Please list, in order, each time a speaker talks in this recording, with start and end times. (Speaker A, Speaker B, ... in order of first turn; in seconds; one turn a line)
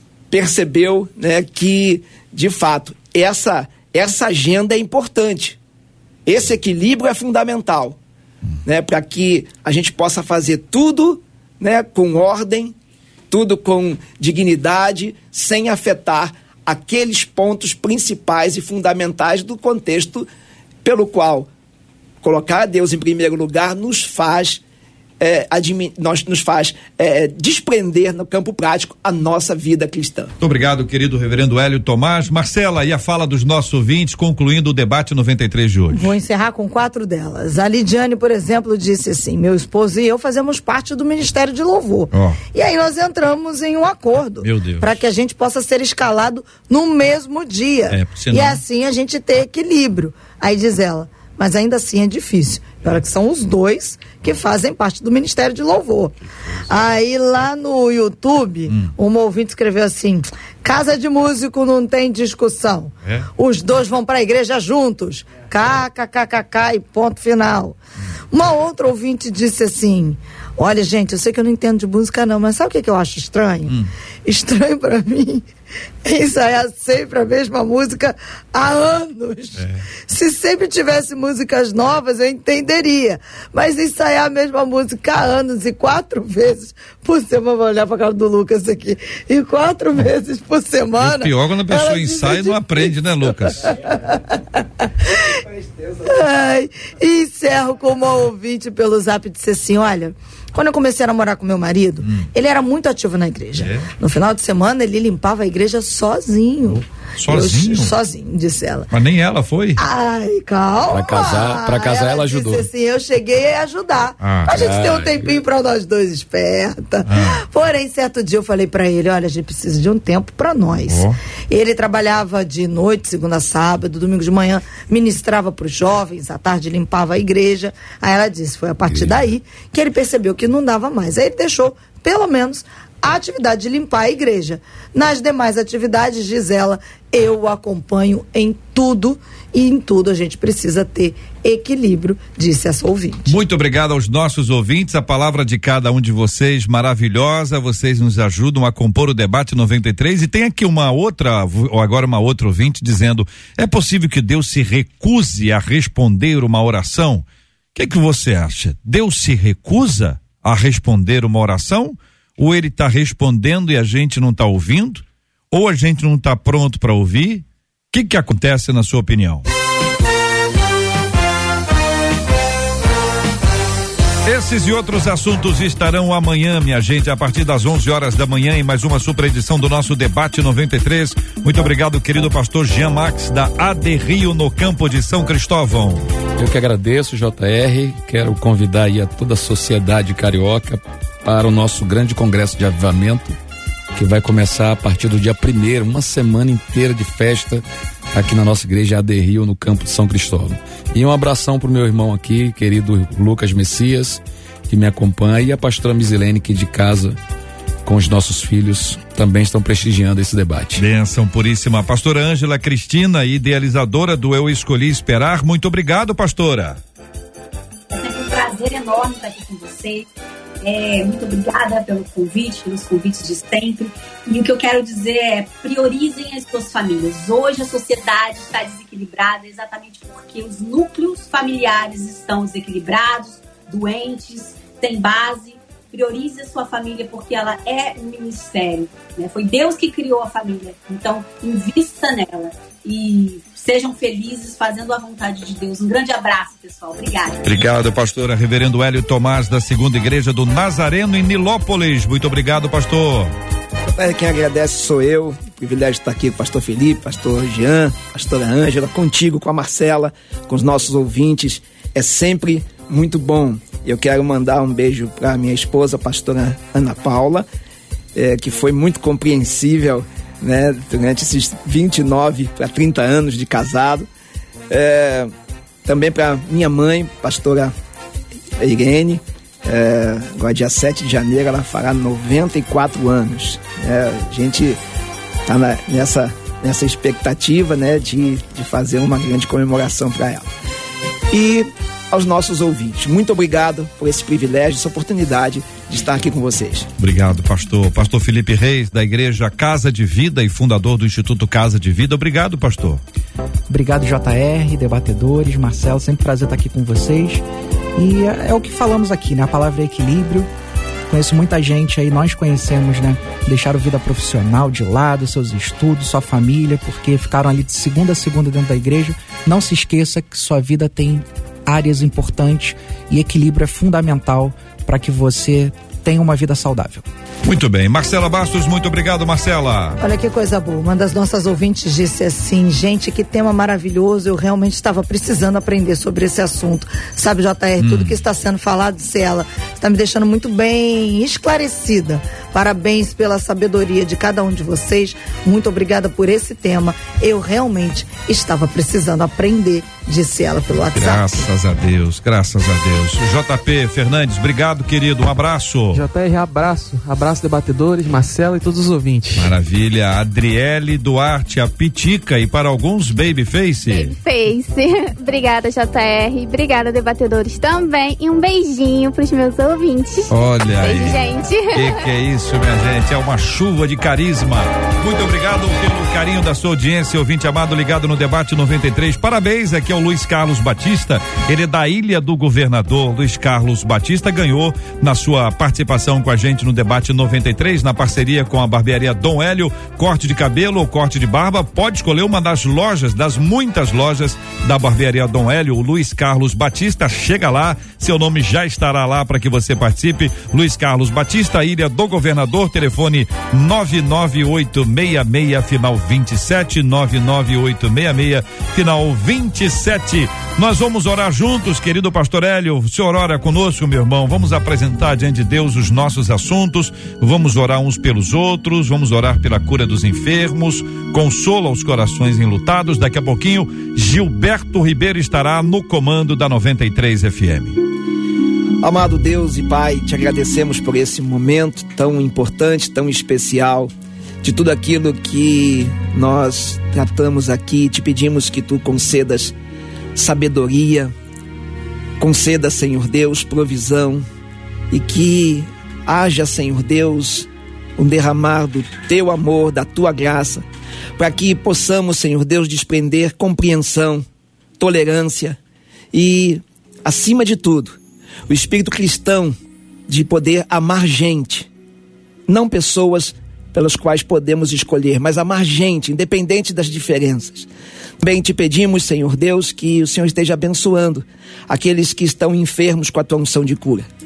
Speaker A: 0.3-5.6
Speaker A: 6.2-8.0
Speaker A: 8.6-12.7
Speaker A: 13.3-20.3
Speaker A: 20.8-21.5
Speaker A: 22.2-24.6
Speaker A: 25.2-30.3
Speaker B: 30.4-36.1
Speaker C: 35.9-67.8
Speaker B: 42.1-42.4
Speaker B: 44.4-45.0
Speaker B: 47.9-48.6
Speaker C: 68.3-73.7
Speaker C: 74.2-75.5
Speaker C: 76.0-95.2
Speaker B: 91.0-93.7
Speaker A: 95.4-96.2
Speaker C: 96.1-108.9
Speaker B: 103.5-103.9
Speaker B: 106.7-107.9
Speaker B: 108.9-109.8
Speaker C: 109.8-143.4
Speaker D: 110.9-112.7
Speaker B: 114.2-114.5
Speaker D: 114.5-115.4
Speaker B: 117.0-117.4
Speaker B: 120.9-121.2
Speaker B: 143.3-169.4
Speaker B: 174.2-186.0
Speaker D: 186.4-193.4
Speaker D: 193.9-207.2
Speaker D: 207.8-210.8
Speaker B: 210.8-216.8
Speaker E: 217.9-220.1
Speaker E: 220.6-247.4
Speaker B: 247.4-253.3
Speaker A: 253.9-267.4
Speaker A: 268.1-274.1
Speaker A: 274.7-275.3
Speaker A: 275.8-277.7
Speaker A: 278.6-284.8
Speaker A: 285.5-290.5
Speaker A: 291.3-296.9
Speaker B: 297.0-303.0
Speaker F: 303.7-307.4
Speaker F: 307.9-310.5
Speaker F: 311.1-327.1
Speaker B: 327.4-330.0
Speaker C: 330.0-351.4
Speaker B: 337.8-338.1
Speaker B: 350.8-356.0
Speaker G: 355.9-359.5
Speaker B: 359.4-364.1
Speaker H: 363.9-372.0
Speaker B: 370.3-371.2
Speaker B: 371.7-427.8
Speaker A: 428.8-433.9
Speaker A: 434.4-439.5
Speaker A: 440.1-441.1
Speaker A: 442.2-444.2
Speaker A: 444.9-450.6
Speaker A: 451.2-454.2
Speaker A: 454.8-455.6
Speaker A: 456.1-457.9
Speaker A: 458.5-459.6
Speaker A: 460.1-461.7
Speaker A: 462.5-467.7
Speaker A: 468.2-474.1